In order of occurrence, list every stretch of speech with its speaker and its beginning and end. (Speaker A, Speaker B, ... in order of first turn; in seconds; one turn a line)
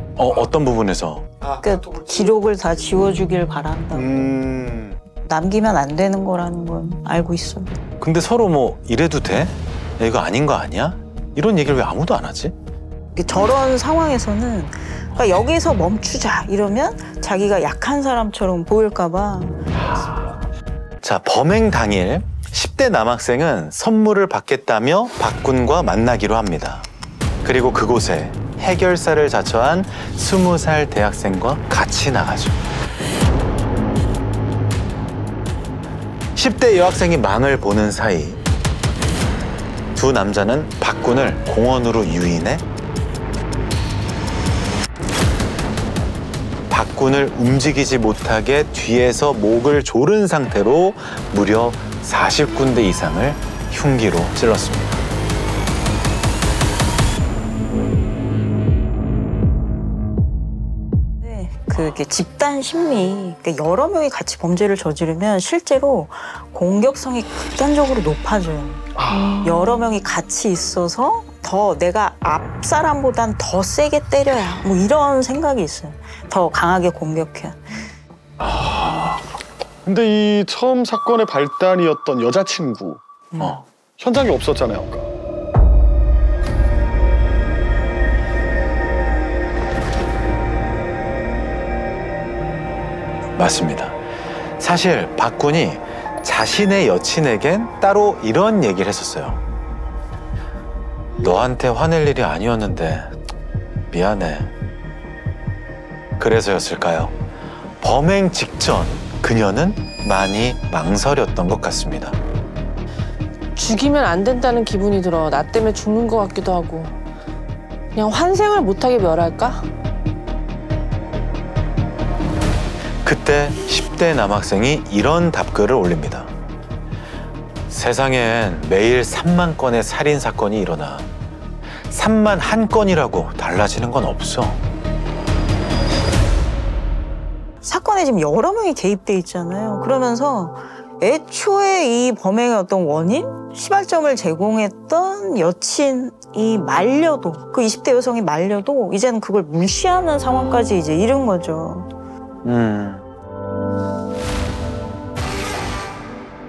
Speaker A: 0.2-1.3
Speaker B: 1.4-1.7
Speaker C: 1.6-4.2
Speaker A: 3.9-5.0
Speaker C: 5.2-7.8
Speaker A: 8.0-12.6
Speaker C: 13.1-19.7
Speaker A: 19.8-20.4
Speaker A: 21.0-26.9
Speaker A: 27.4-32.6
Speaker A: 36.4-38.4
Speaker A: 40.0-42.6
Speaker A: 46.7-55.0
Speaker C: 61.2-77.9
Speaker B: 69.0-69.5
Speaker D: 69.1-69.7
Speaker B: 78.6-79.1
Speaker B: 79.8-83.0
Speaker B: 84.0-85.1
Speaker A: 93.4-94.0
Speaker A: 94.6-99.4
Speaker A: 101.2-103.1
Speaker A: 103.9-104.5
Speaker A: 106.2-107.2
Speaker A: 107.8-112.2
Speaker D: 113.6-117.0
Speaker D: 118.0-119.7
Speaker A: 123.0-126.3
Speaker A: 127.7-131.1
Speaker A: 131.9-134.6
Speaker C: 137.6-151.9
Speaker A: 152.4-153.1